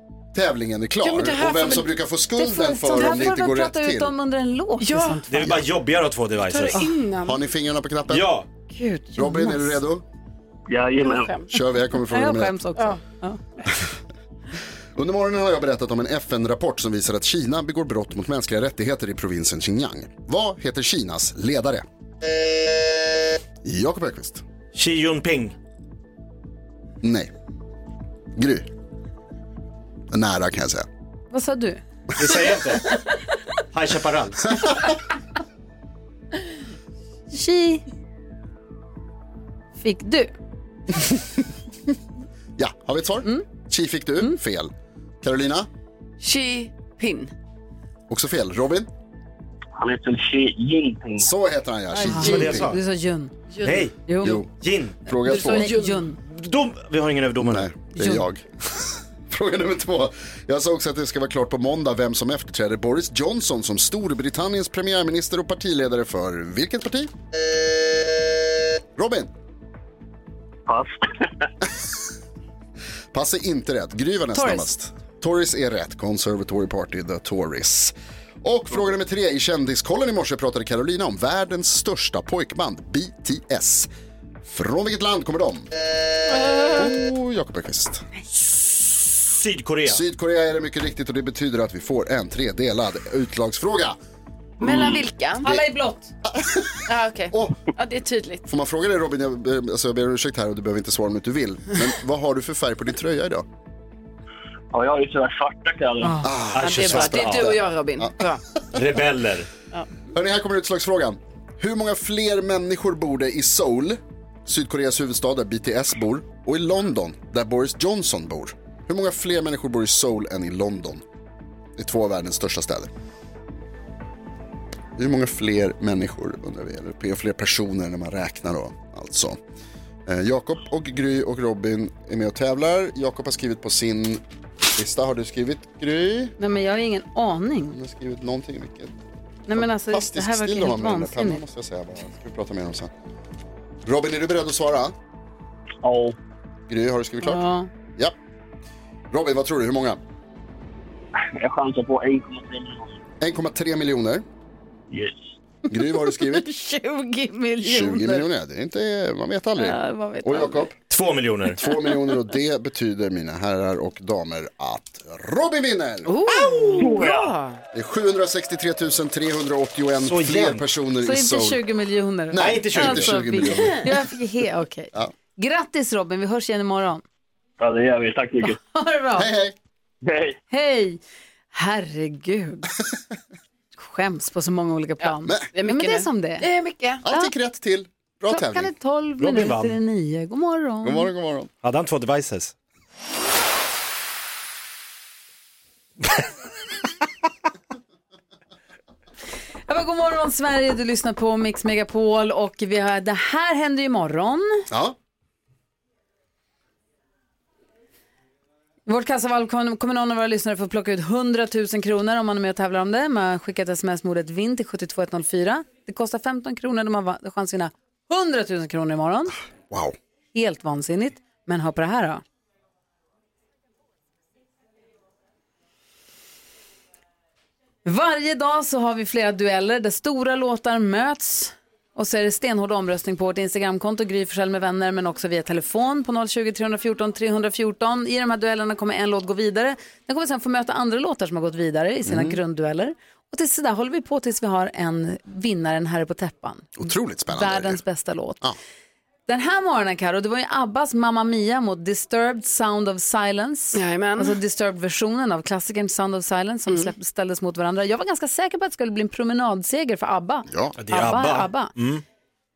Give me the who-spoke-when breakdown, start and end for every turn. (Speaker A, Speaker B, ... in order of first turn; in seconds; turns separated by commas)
Speaker A: 0.3-4.1, Speaker B: 1.0-1.9, Speaker C: 2.4-5.6, Speaker B: 4.8-5.2, Speaker D: 5.3-6.8, Speaker B: 6.4-7.4, Speaker A: 7.2-8.3, Speaker D: 8.1-8.5, Speaker C: 8.7-9.8, Speaker A: 9.2-10.1, Speaker E: 10.7-11.4, Speaker B: 11.0-11.5, Speaker A: 11.5-12.6, Speaker C: 12.1-13.4, Speaker A: 15.0-21.9, Speaker A: 23.6-24.4, Speaker D: 24.7-25.6, Speaker A: 27.0-27.3, Speaker A: 28.4-28.7, Speaker A: 30.1-30.9, Speaker C: 31.3-31.8, Speaker D: 32.2-33.0, Speaker D: 33.7-34.7, Speaker C: 37.3-37.8, Speaker C: 39.8-40.3, Speaker A: 42.6-45.7, Speaker B: 46.2-47.3, Speaker A: 48.1-48.9, Speaker E: 49.8-51.3, Speaker A: 51.2-52.8, Speaker C: 51.9-53.3, Speaker D: 52.1-52.8, Speaker B: 53.5-53.9, Speaker D: 53.6-55.0, Speaker C: 54.1-54.4, Speaker A: 54.2-54.5, Speaker A: 55.0-55.8, Speaker C: 55.2-56.2, Speaker B: 55.2-56.1, Speaker D: 56.2-57.7, Speaker A: 57.4-67.1, Speaker C: 57.9-58.3, Speaker A: 69.0-69.3, Speaker E: 70.7-71.3, Speaker A: 73.1-83.9, Speaker C: 74.3-74.7, Speaker A: 84.5-85.7, Speaker B: 86.3-86.9, Speaker A: 86.7-88.0, Speaker D: 88.5-90.0, Speaker A: 89.8-94.0, Speaker B: 94.6-95.5, Speaker A: 94.6-95.7, Speaker C: 95.4-96.1, Speaker A: 96.2-97.6, Speaker B: 96.9-98.5, Speaker A: 98.5-103.5, Speaker E: 104.7-106.2, Speaker C: 106.0-106.3, Speaker A: 106.2-108.3, Speaker D: 106.5-107.6, Speaker B: 106.6-108.4, Speaker D: 108.7-109.5, Speaker A: 110.1-121.0, Speaker A: 121.8-122.9, Speaker A: 125.0-129.4, Speaker A: 130.1-134.2, Speaker A: 134.7-136.3, Speaker C: 136.4-137.8, Speaker A: 137.7-139.0, Speaker C: 139.5-141.4, Speaker A: 139.5-142.9, Speaker A: 143.8-144.9, Speaker E: 145.8-146.2, Speaker A: 146.7-147.4, Speaker C: 147.2-147.7, Speaker A: 149.1-150.0, Speaker E: 151.4-153.0, Speaker A: 153.2-154.2, Speaker E: 154.9-155.3, Speaker A: 155.7-156.5, Speaker C: 156.2-158.2, Speaker A: 157.6-160.8, Speaker C: 159.6-160.5, Speaker D: 160.9-161.6, Speaker A: 161.5-166.8, Speaker B: 166.1-167.6, Speaker C: 166.3-166.8, Speaker E: 166.8-167.3, Speaker A: 167.7-171.6, Speaker D: 170.0-170.6, Speaker C: 171.0-177.0, Speaker A: 172.3-174.0, Speaker D: 172.4-173.4, Speaker B: 173.6-173.8, Speaker E: 177.6-178.6, Speaker C: 178.5-179.3, Speaker A: 179.2-179.6, Speaker E: 180.0-180.4, Speaker C: 180.5-181.0, Speaker C: 181.5-182.7, Speaker C: 183.8-186.5, Speaker B: 185.0-187.0, Speaker A: 187.0-188.7, Speaker C: 188.3-191.1, Speaker D: 189.2-189.8, Speaker A: 190.8-191.5, Speaker D: 191.6-192.5, Speaker C: 199.7-204.7, Speaker A: 204.7-205.0, Speaker C: 208.9-219.3, Speaker A: 219.7-220.0, Speaker C: 220.3-222.2, Speaker C: 227.8-246.8, Speaker A: 242.1-242.4, Speaker A: 246.8-247.8, Speaker C: 247.3-248.4, Speaker C: 249.3-261.7, Speaker B: 253.7-254.4, Speaker A: 260.5-260.8, Speaker D: 260.8-262.0